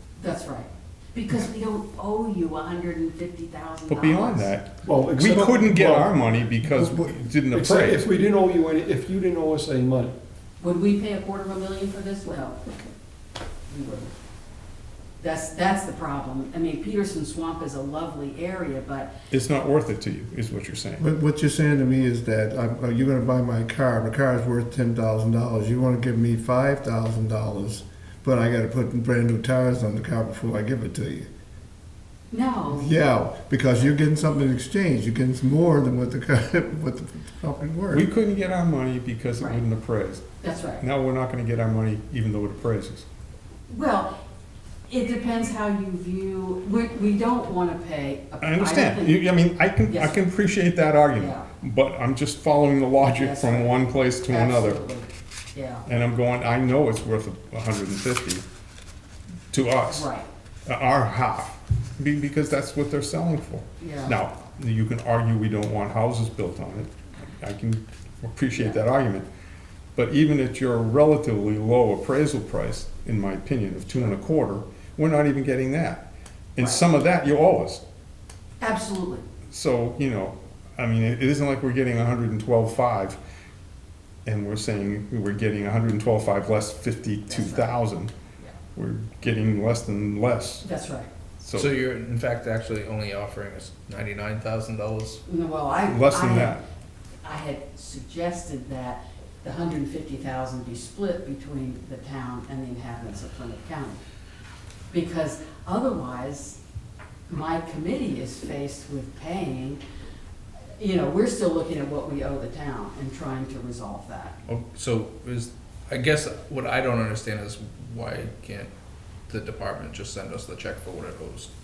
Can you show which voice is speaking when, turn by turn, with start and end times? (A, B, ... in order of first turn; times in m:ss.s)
0:00.2-0:04.5 A
0:03.9-0:08.0 B
0:04.8-0:10.1 C
0:10.6-0:12.6 A
0:13.7-0:14.1 A
0:15.2-0:19.1 A
0:19.3-0:21.0 B
0:21.0-0:31.3 D
0:32.3-0:32.9 A
0:32.7-0:38.1 D
0:37.9-0:40.2 B
0:40.4-0:40.8 A
0:40.8-0:43.0 B
0:43.7-0:44.1 A
0:44.9-0:49.2 A
0:48.4-0:54.8 B
0:49.9-0:50.2 A
0:51.2-0:51.4 A
0:53.0-0:55.9 A
0:55.9-0:58.4 B
0:59.5-1:00.1 B
0:59.9-1:00.3 A
1:00.7-1:09.3 B
1:03.8-1:04.2 A
1:09.9-1:17.8 B
1:18.6-1:19.2 A
1:19.5-1:23.2 B
1:24.2-1:28.1 B
1:27.3-1:27.7 A
1:28.7-1:30.6 B
1:30.6-1:31.1 A
1:31.4-1:31.7 B
1:31.5-1:35.2 E
1:35.2-1:36.6 A
1:35.9-1:36.6 B
1:37.2-1:44.0 A
1:44.9-1:46.6 A
1:47.3-1:49.8 A
1:50.8-1:54.3 A
1:54.5-1:58.7 E
1:59.3-2:01.5 E